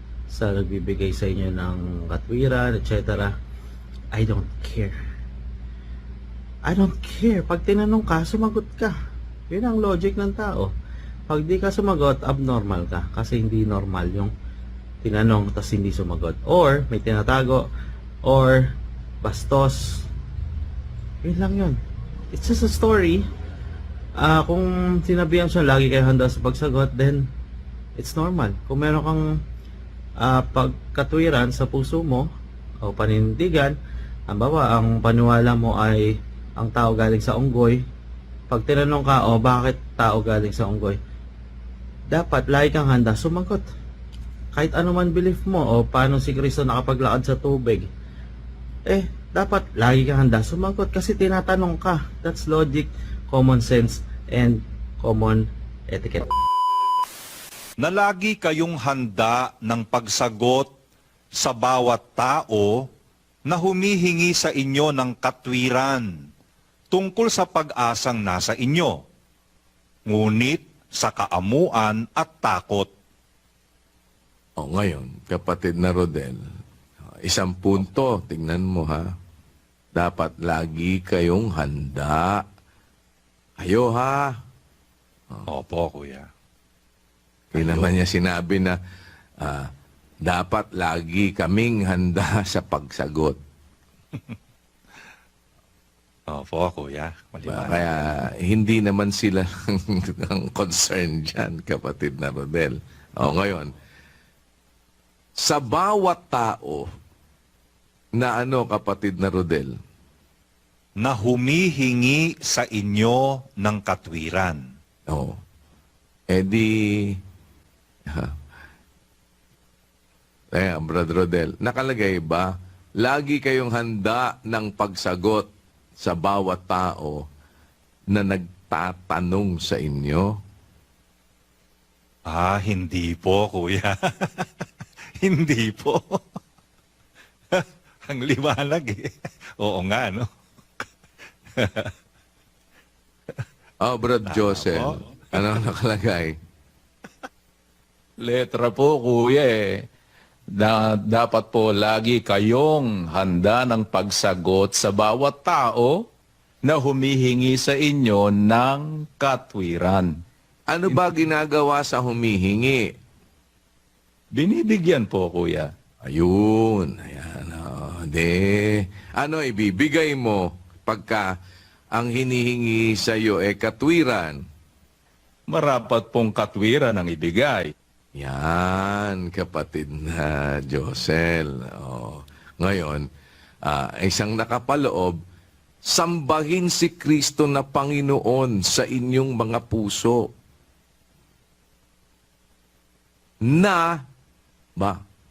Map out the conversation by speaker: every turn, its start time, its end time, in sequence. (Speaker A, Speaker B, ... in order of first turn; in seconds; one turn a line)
Speaker A: 0.3-3.3
Speaker A: 4.1-4.9
Speaker A: 6.7-8.9
Speaker A: 9.5-10.7
Speaker A: 11.3-14.3
Speaker A: 15.0-17.6
Speaker A: 18.2-18.7
Speaker A: 19.2-20.0
Speaker A: 21.2-21.8
Speaker A: 22.3-23.2
Speaker A: 24.2-27.2
Speaker A: 28.0-29.2
Speaker A: 30.2-32.3
Speaker A: 32.8-33.7
Speaker A: 34.3-37.8
Speaker A: 38.5-41.0
Speaker A: 42.1-43.6
Speaker A: 44.5-47.9
Speaker A: 48.9-56.2
Speaker B: 57.8-60.7
Speaker B: 61.3-62.9
Speaker B: 63.5-66.1
Speaker B: 66.9-69.0
Speaker B: 70.1-72.9
Speaker C: 74.6-76.4
Speaker C: 77.2-79.1
Speaker C: 79.9-82.4
Speaker C: 83.6-84.4
Speaker B: 85.5-86.3
Speaker C: 87.5-88.8
Speaker B: 87.5-87.9
Speaker C: 89.4-89.7
Speaker C: 90.2-93.4
Speaker B: 96.3-98.1
Speaker C: 97.5-103.7
Speaker C: 105.4-106.9
Speaker C: 108.1-109.7
Speaker B: 111.0-114.6
Speaker C: 115.1-115.4
Speaker C: 116.3-117.2
Speaker C: 120.5-125.5
Speaker C: 126.0-127.2
Speaker C: 128.1-130.3
Speaker B: 132.2-134.5
Speaker B: 135.2-136.2
Speaker B: 137.5-140.3
Speaker B: 141.6-141.9
Speaker C: 143.8-146.3
Speaker B: 144.3-145.0
Speaker D: 148.2-149.8
Speaker D: 150.5-156.0
Speaker D: 156.6-160.2
Speaker C: 160.7-162.9
Speaker D: 164.3-165.7
Speaker C: 166.0-171.3
Speaker C: 171.9-174.4
Speaker D: 175.5-177.7
Speaker C: 178.1-183.0
Speaker C: 183.6-185.2
Speaker C: 185.8-190.3
Speaker C: 193.5-193.9